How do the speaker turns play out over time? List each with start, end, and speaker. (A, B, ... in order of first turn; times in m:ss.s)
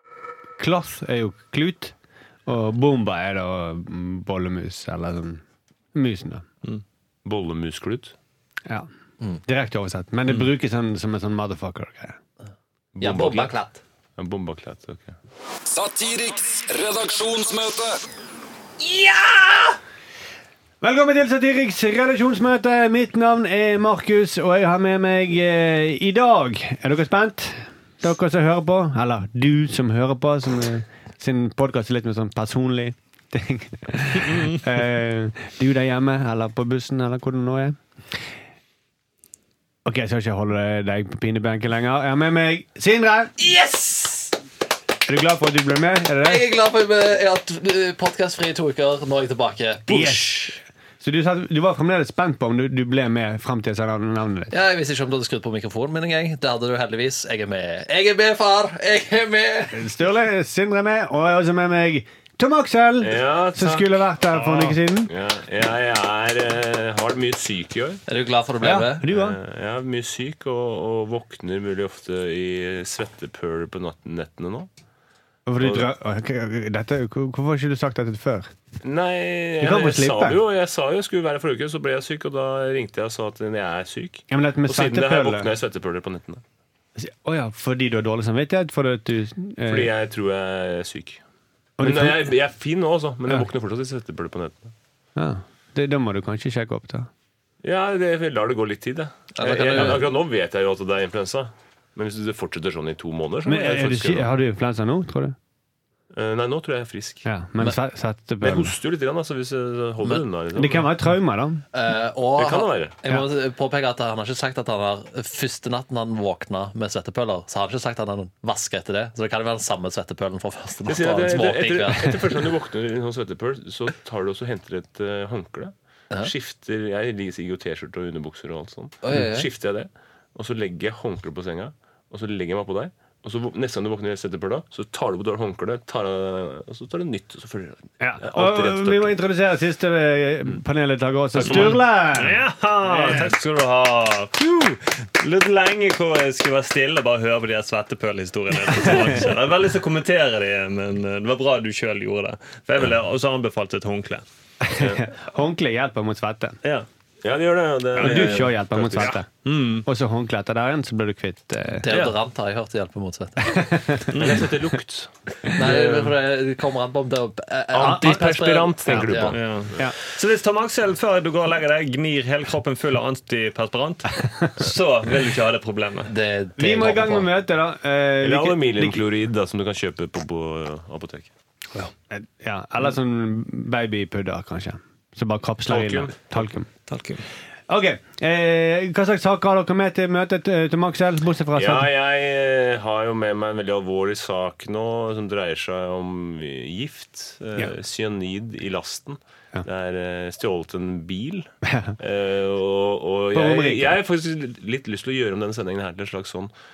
0:00.6-0:01.9 A
0:02.4-0:05.4 A
0:05.9-0:06.4 A
0:07.2-0:08.1 B
0:09.4-0:12.2 A
0:13.0-0:13.5 B
0:13.0-0:13.8 C
0:14.2-0:15.2 B
0:15.7-0:18.0 D
0:18.8-0:19.8 C
0:20.8-0:37.8 A
0:39.8-0:43.3 A
0:43.4-0:44.3 C
0:45.0-0:46.4 A
0:46.2-0:50.6 C
0:49.9-0:54.5 A
0:54.5-0:59.8 C
0:59.7-1:05.1 A
1:03.0-1:03.9 B
1:04.3-1:04.8 E
1:05.0-1:08.0 B
1:08.1-1:09.0 C
1:08.6-1:09.4 A
1:09.0-1:14.7 B
1:15.4-1:18.5 A
1:15.6-1:15.9 B
1:18.8-1:26.4 B
1:19.6-1:20.4 A
1:24.3-1:25.5 A
1:27.0-1:29.9 A
1:29.7-1:31.2 B
1:31.8-1:32.3 A
1:31.8-1:34.7 B
1:35.2-1:37.1 A
1:37.6-1:44.3 B
1:39.3-1:40.1 C
1:43.4-1:45.4 A
1:46.1-1:47.3 B
1:47.2-1:48.7 A
1:48.4-1:50.9 B
1:50.5-1:51.6 A
1:51.7-2:02.5 C
1:52.4-1:52.9 B
2:00.8-2:19.1 B
2:09.0-2:09.5 C
2:18.0-2:23.3 A
2:21.4-2:34.2 E
2:34.6-2:36.6 A
2:34.8-2:35.0 B
2:37.2-2:39.2 B
2:38.0-2:39.3 A
2:38.0-2:38.5 E
2:39.4-2:39.8 E
2:39.8-2:41.8 A
2:41.8-2:43.7 C
2:41.9-2:42.1 B
2:43.4-2:44.2 A
2:44.1-2:44.5 E
2:44.1-2:45.1 B
2:45.5-2:49.4 C
2:45.6-2:46.1 E
2:47.7-2:49.8 B
2:47.8-2:48.3 A
2:48.8-2:49.2 A
2:49.3-2:56.1 E
2:56.1-2:57.3 C
2:56.6-2:59.0 A
2:58.2-3:01.3 B
3:02.1-3:06.7 A
3:05.7-3:06.4 B
3:06.9-3:07.2 E
3:07.7-3:11.9 A
3:11.5-3:26.5 B
3:21.6-3:21.9 A
3:23.3-3:24.0 A